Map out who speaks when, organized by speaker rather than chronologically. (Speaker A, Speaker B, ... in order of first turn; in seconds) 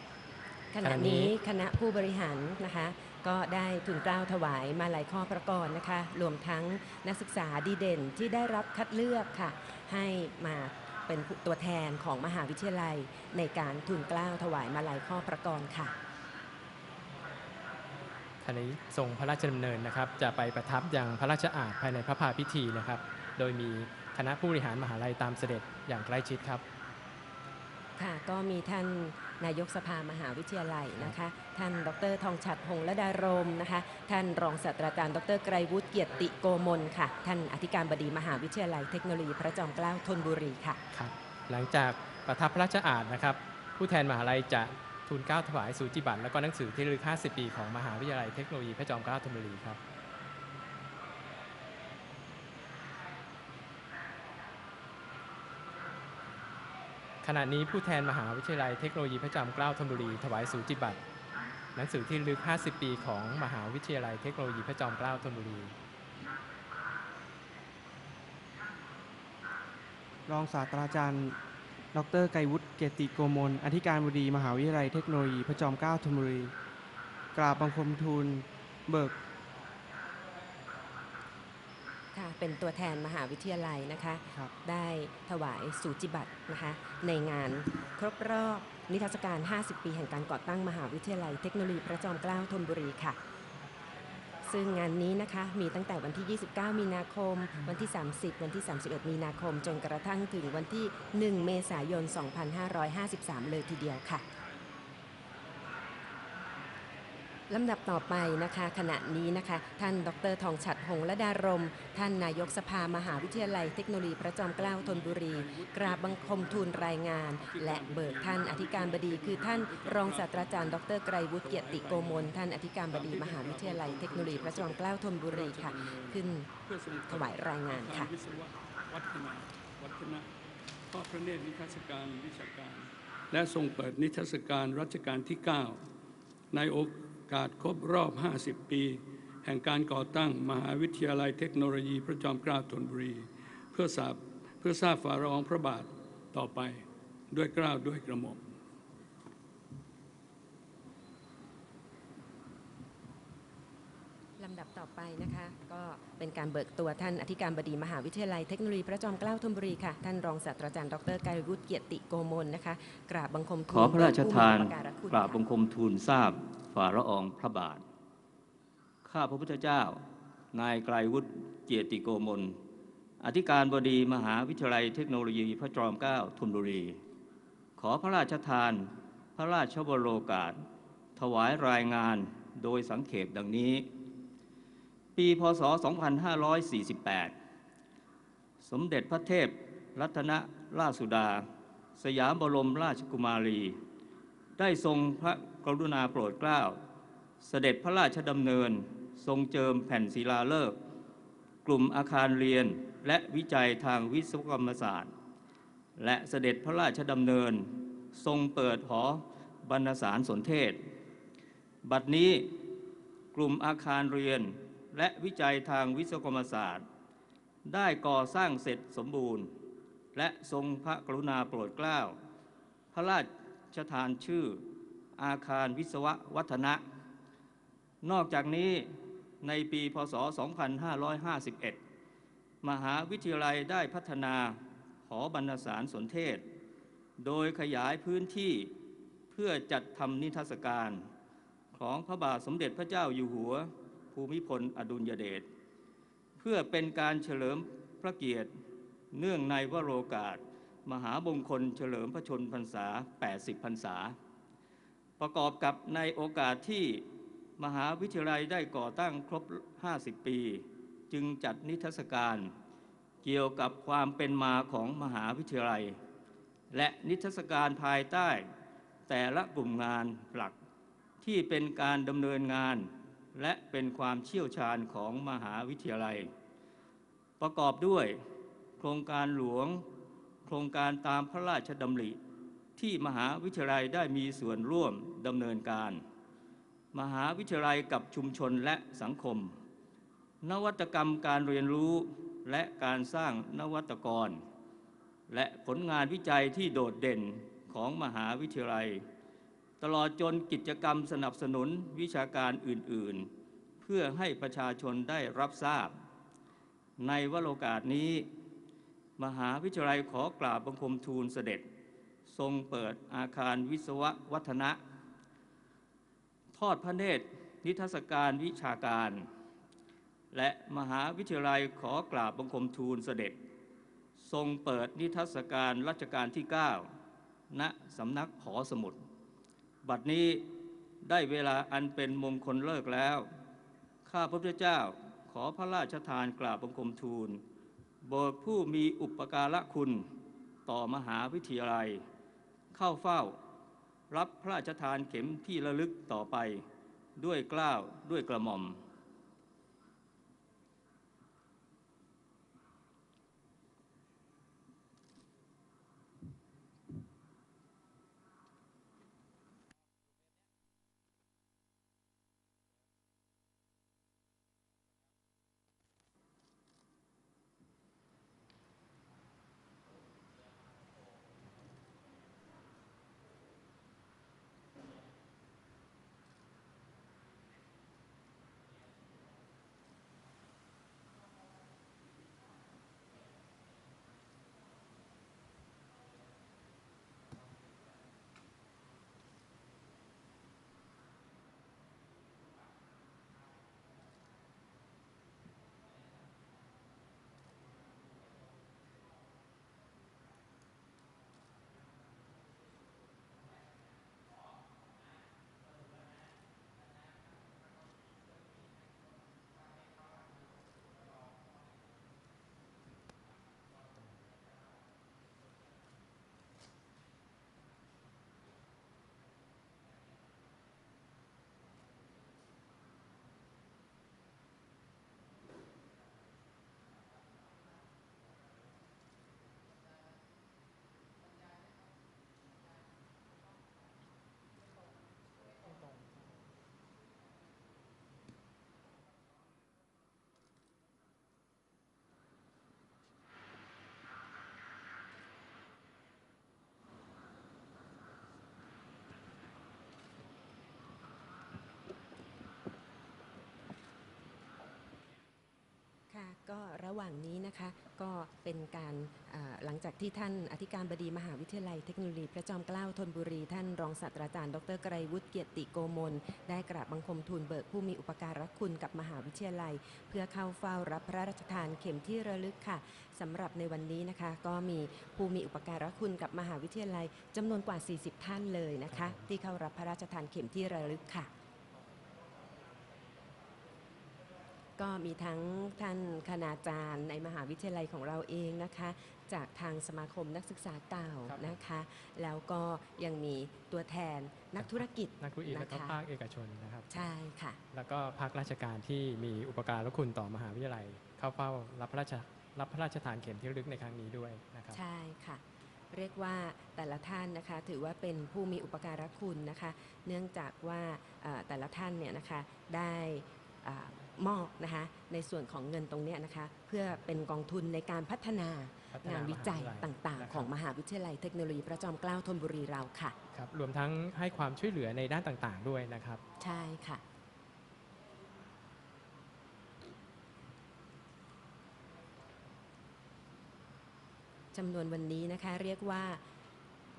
Speaker A: 0.7-15.9, 28.0-40.8, 82.1-93.2, 94.4-104.2, 107.5-126.5, 127.1-128.1, 154.4-165.4, 456.1-481.3, 484.8-496.0, 496.9-497.6, 504.7-523.2, 526.4-527.0, 534.5-536.2
Speaker B: 0.8-1.3, 18.4-26.6, 40.9-49.8, 57.2-61.0, 61.8-65.8, 478.9-479.2, 491.3-491.6, 494.6-496.9, 497.7-504.8, 518.9-520.5, 523.3-526.2
Speaker C: 70.3-71.3, 71.9-76.5, 77.3-79.2
Speaker D: 114.6-120.8, 121.4-130.3, 130.9-135.8, 136.5-148.5
Speaker E: 163.7-167.8, 169.1-170.0, 170.5-172.6, 173.2-177.0, 177.8-180.6, 181.2-183.9, 185.2-187.3, 188.6-191.5, 192.0-193.8, 194.6-196.8, 197.4-200.8, 201.7-205.1, 206.0-210.8, 211.8-212.6, 213.3-216.8, 217.7-219.5, 220.1-222.2, 222.9-224.6, 225.2-226.8, 228.0-228.9, 229.4-231.8, 232.6-236.4, 237.2-238.7, 239.3-241.1, 241.7-245.4, 246.4-248.5, 249.1-254.2, 255.2-257.0, 257.6-262.5, 263.2-266.0, 266.7-268.5, 269.1-270.6, 271.2-276.3, 277.4-278.2, 278.8-279.9, 280.4-282.2, 282.8-286.0, 286.9-289.6, 290.4-294.4, 295.3-299.0, 299.8-303.3, 303.8-305.9, 307.0-308.3, 309.2-311.6, 312.3-314.8, 316.5-319.3, 320.3-323.4, 324.2-326.9, 327.5-329.0, 329.8-330.5, 331.0-333.3, 334.1-337.4, 338.0-340.1, 340.7-342.0, 342.7-343.4, 344.1-346.6, 347.2-348.8